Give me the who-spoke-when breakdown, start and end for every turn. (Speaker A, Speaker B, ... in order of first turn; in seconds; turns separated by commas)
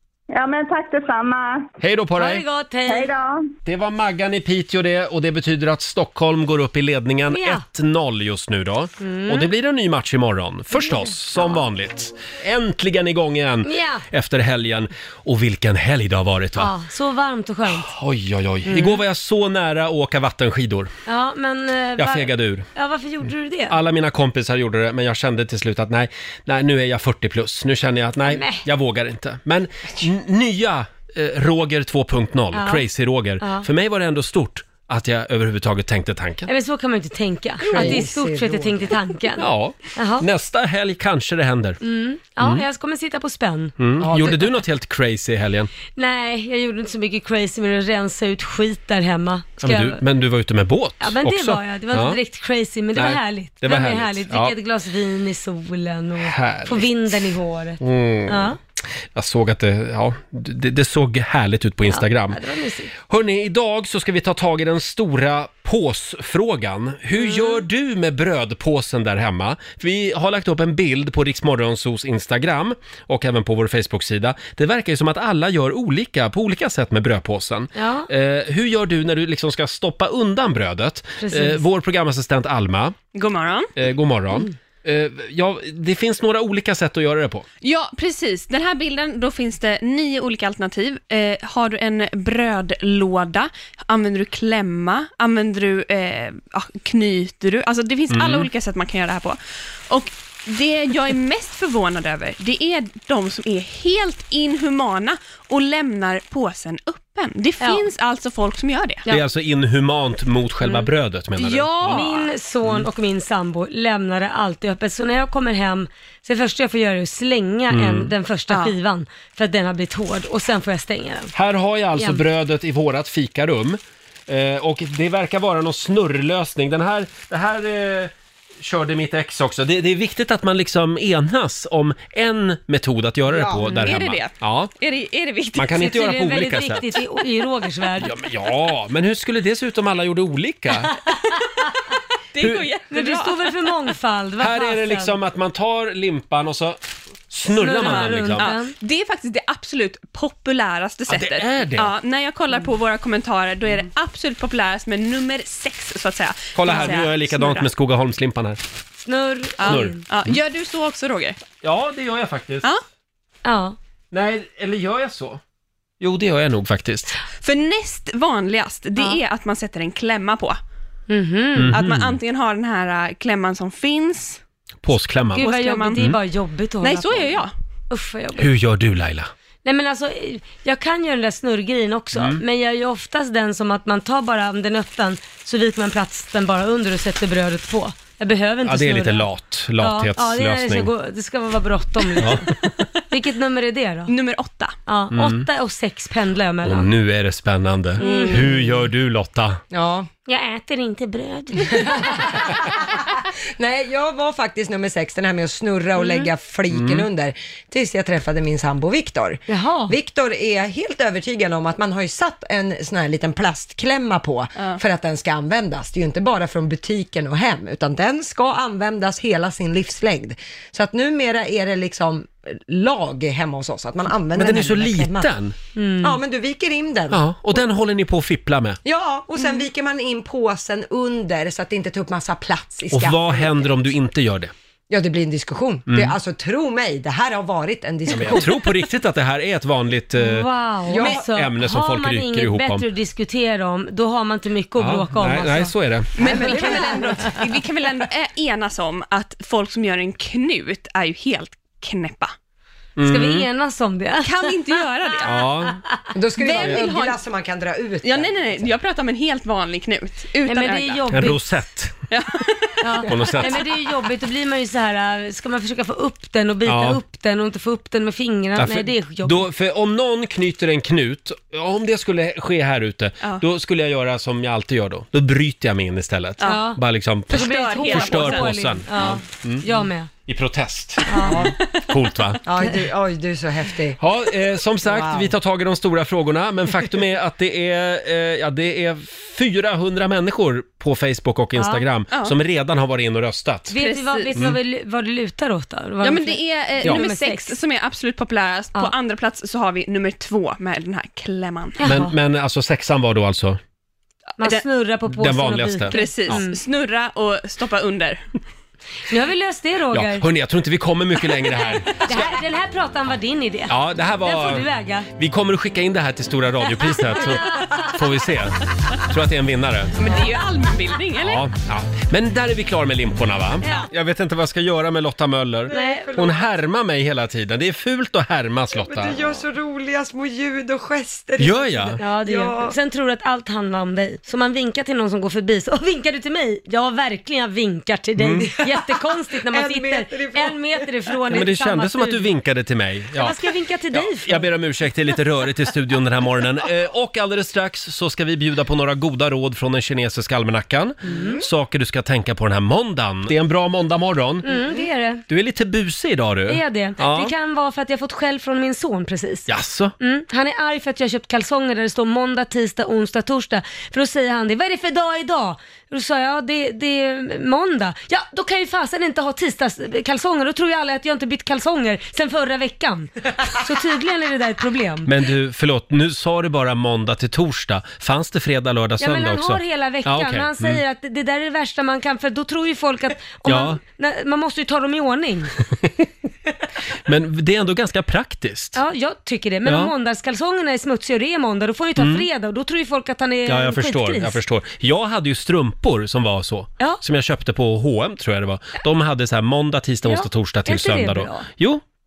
Speaker A: 0.3-1.7, Speaker B: 1.8-2.4, Speaker C: 2.2-3.1, Speaker A: 2.9-3.4, Speaker B: 3.6-16.7, Speaker C: 7.3-7.6, Speaker C: 9.0-9.5, Speaker C: 10.7-11.6, Speaker C: 13.7-14.1, Speaker C: 16.6-17.9, Speaker B: 17.7-20.9, Speaker C: 18.7-19.0, Speaker C: 21.1-23.8, Speaker B: 22.0-22.7, Speaker B: 23.7-36.5, Speaker C: 28.3-28.6, Speaker C: 32.5-32.9, Speaker C: 33.4-33.7, Speaker C: 36.5-40.3, Speaker D: 37.6-39.0, Speaker B: 37.7-38.0, Speaker B: 39.4-41.8, Speaker C: 41.8-43.7, Speaker B: 43.8-45.7, Speaker D: 44.0-44.4, Speaker C: 46.0-50.0, Speaker B: 49.6-52.2, Speaker C: 51.0-58.6, Speaker B: 53.0-54.5, Speaker B: 56.2-56.9, Speaker B: 57.8-62.4, Speaker C: 61.9-62.9, Speaker B: 63.1-83.0, Speaker C: 67.1-67.6, Speaker C: 77.8-78.1, Speaker C: 81.2-81.6, Speaker E: 83.1-83.7, Speaker B: 83.8-87.5, Speaker E: 87.6-99.4, Speaker B: 98.1-98.5, Speaker E: 99.9-109.1, Speaker B: 109.1-112.1, Speaker C: 110.6-110.9, Speaker E: 111.4-112.3, Speaker C: 111.9-121.3, Speaker B: 117.7-118.1, Speaker E: 118.5-118.8, Speaker B: 121.3-134.7, Speaker C: 122.0-122.2, Speaker D: 133.3-133.8, Speaker E: 133.9-135.8, Speaker B: 135.6-137.0, Speaker C: 135.7-138.1, Speaker B: 138.0-141.0, Speaker C: 140.9-141.7, Speaker E: 142.3-143.9, Speaker B: 142.4-142.7, Speaker C: 142.9-145.2, Speaker B: 144.4-146.8, Speaker B: 147.3-148.5, Speaker C: 147.5-148.8, Speaker E: 147.9-157.7, Speaker B: 151.1-151.9, Speaker B: 156.6-158.6, Speaker C: 159.1-160.0, Speaker E: 159.6-161.4, Speaker B: 159.6-160.0, Speaker B: 161.6-162.7, Speaker C: 163.4-163.8, Speaker B: 164.1-165.4, Speaker B: 166.0-167.2, Speaker E: 167.4-170.6, Speaker C: 171.1-171.8, Speaker B: 171.6-172.2, Speaker E: 171.7-174.4, Speaker B: 174.8-176.2, Speaker C: 175.3-178.5, Speaker E: 175.4-176.2, Speaker E: 176.8-177.5, Speaker B: 178.4-179.3, Speaker C: 179.7-194.1, Speaker B: 182.2-182.4, Speaker B: 188.7-190.9, Speaker B: 192.2-192.7, Speaker E: 194.1-194.8, Speaker C: 194.9-196.9, Speaker B: 195.1-195.4, Speaker B: 196.6-199.6, Speaker C: 198.0-198.6, Speaker D: 199.7-200.1, Speaker C: 200.3-202.4, Speaker D: 201.7-225.3, Speaker C: 206.0-206.3, Speaker B: 206.7-207.1, Speaker C: 209.5-209.9, Speaker B: 224.4-225.6, Speaker C: 225.8-226.2, Speaker D: 226.0-227.2, Speaker B: 227.1-228.8, Speaker D: 228.8-233.8, Speaker B: 232.9-234.5, Speaker D: 234.9-238.6, Speaker B: 235.9-236.2, Speaker B: 238.1-242.8, Speaker C: 240.2-245.8, Speaker D: 240.9-241.2, Speaker B: 244.8-246.1, Speaker E: 246.2-252.3, Speaker D: 246.2-247.4, Speaker C: 246.5-247.3, Speaker B: 253.0-253.5, Speaker C: 253.0-254.7, Speaker E: 254.2-255.4, Speaker B: 255.2-255.8, Speaker C: 255.7-256.0, Speaker D: 256.1-258.6, Speaker E: 256.4-257.2, Speaker E: 258.0-261.3, Speaker C: 260.5-261.7, Speaker B: 261.1-262.0, Speaker E: 262.1-263.7, Speaker C: 262.8-269.5, Speaker B: 263.1-263.7, Speaker B: 266.7-267.0, Speaker B: 268.6-279.7, Speaker E: 276.4-276.7, Speaker C: 276.4-280.1, Speaker E: 277.3-279.2, Speaker B: 280.3-282.4, Speaker C: 281.1-281.5, Speaker D: 281.3-281.5, Speaker D: 282.4-284.0, Speaker B: 284.0-293.8, Speaker D: 284.8-285.3, Speaker C: 291.6-291.9, Speaker E: 292.1-292.4, Speaker C: 293.7-297.6, Speaker E: 293.7-294.4, Speaker E: 296.0-301.8, Speaker C: 301.8-302.1, Speaker B: 301.8-303.6, Speaker C: 304.4-306.6, Speaker B: 305.1-306.4, Speaker E: 305.9-308.2, Speaker C: 309.1-310.3, Speaker B: 309.9-312.4, Speaker C: 312.0-315.1, Speaker E: 312.1-312.4, Speaker B: 313.7-320.0, Speaker C: 317.1-317.8, Speaker E: 320.0-321.5, Speaker B: 321.2-329.3, Speaker C: 323.6-323.9, Speaker C: 325.7-326.2, Speaker D: 325.7-326.4, Speaker D: 328.7-332.8, Speaker B: 331.4-332.0, Speaker C: 332.0-342.3, Speaker B: 338.2-338.5, Speaker D: 338.6-340.9, Speaker B: 341.3-343.4, Speaker C: 343.1-344.5, Speaker B: 343.9-354.5, Speaker C: 351.1-351.4, Speaker D: 351.1-351.4, Speaker C: 354.4-355.2, Speaker B: 355.3-357.3, Speaker C: 356.5-359.5, Speaker B: 359.5-359.9, Speaker C: 360.0-375.1, Speaker B: 375.1-380.8, Speaker C: 379.0-385.5, Speaker B: 383.4-383.8, Speaker B: 387.1-388.8, Speaker C: 388.8-394.4, Speaker B: 389.6-389.9, Speaker B: 392.0-392.3, Speaker B: 393.5-401.8, Speaker C: 400.0-401.5